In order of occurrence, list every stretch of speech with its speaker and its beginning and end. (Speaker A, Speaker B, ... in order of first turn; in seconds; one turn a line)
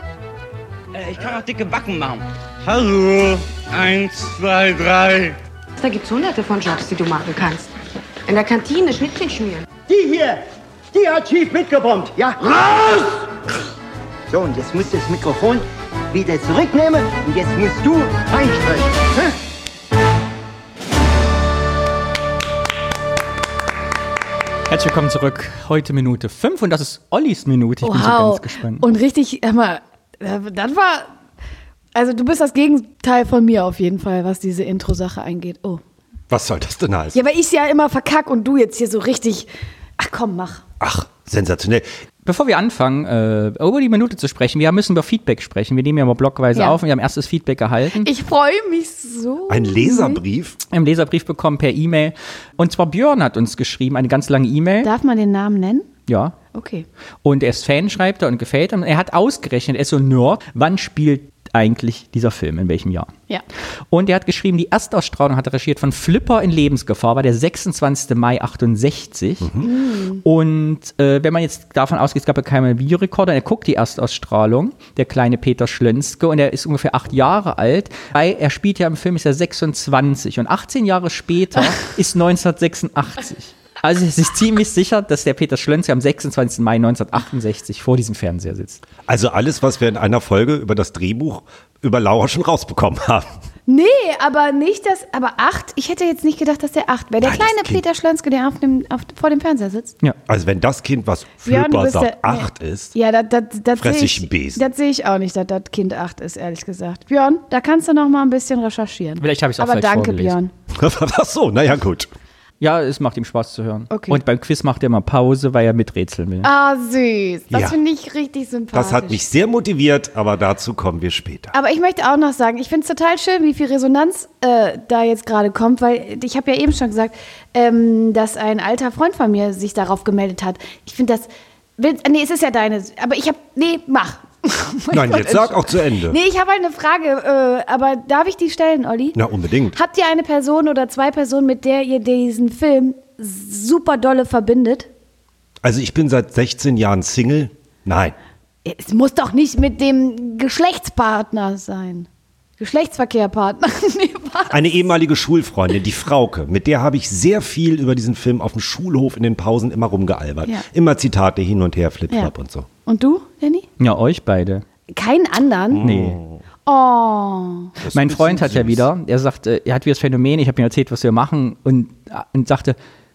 Speaker A: 0.9-5.4
Speaker B: 5.8-7.7
Speaker B: 8.3-9.7
Speaker C: 9.9-13.5
Speaker C: 14.3-19.4
Speaker D: 24.7-28.9
Speaker E: 27.8-31.1
Speaker E: 31.9-35.8
Speaker F: 36.3-37.2
Speaker E: 37.1-40.6
Speaker F: 40.8-41.9
Speaker D: 42.2-48.1
Speaker E: 47.9-50.2
Speaker F: 49.5-50.6
Speaker D: 50.7-54.9
Speaker E: 54.8-55.9
Speaker D: 56.1-56.4
Speaker E: 56.5-56.9
Speaker D: 57.2-63.1
Speaker D: 63.9-69.7
Speaker E: 69.6-70.2
Speaker D: 70.2-88.8
Speaker F: 89.1-93.3
Speaker E: 93.7-99.9
Speaker F: 97.2-97.8
Speaker F: 100.3-102.9
Speaker E: 101.5-110.5
Speaker F: 103.8-104.6
Speaker D: 109.2-110.4
Speaker F: 110.7-112.1
Speaker D: 112.6-116.5
Speaker E: 113.9-114.2
Speaker E: 116.4-119.2
Speaker F: 117.5-117.8
Speaker F: 118.7-121.5
Speaker E: 121.5-139.2
Speaker F: 134.9-136.2
Speaker F: 139.2-139.8
Speaker E: 139.7-144.9
Speaker F: 145.6-148.2
Speaker E: 148.7-154.8
Speaker F: 154.5-162.7
Speaker E: 162.8-163.7
Speaker D: 163.8-164.6
Speaker E: 164.9-165.8
Speaker F: 165.7-166.4
Speaker D: 165.8-166.2
Speaker E: 166.7-167.8
Speaker F: 167.8-168.9
Speaker D: 167.9-172.8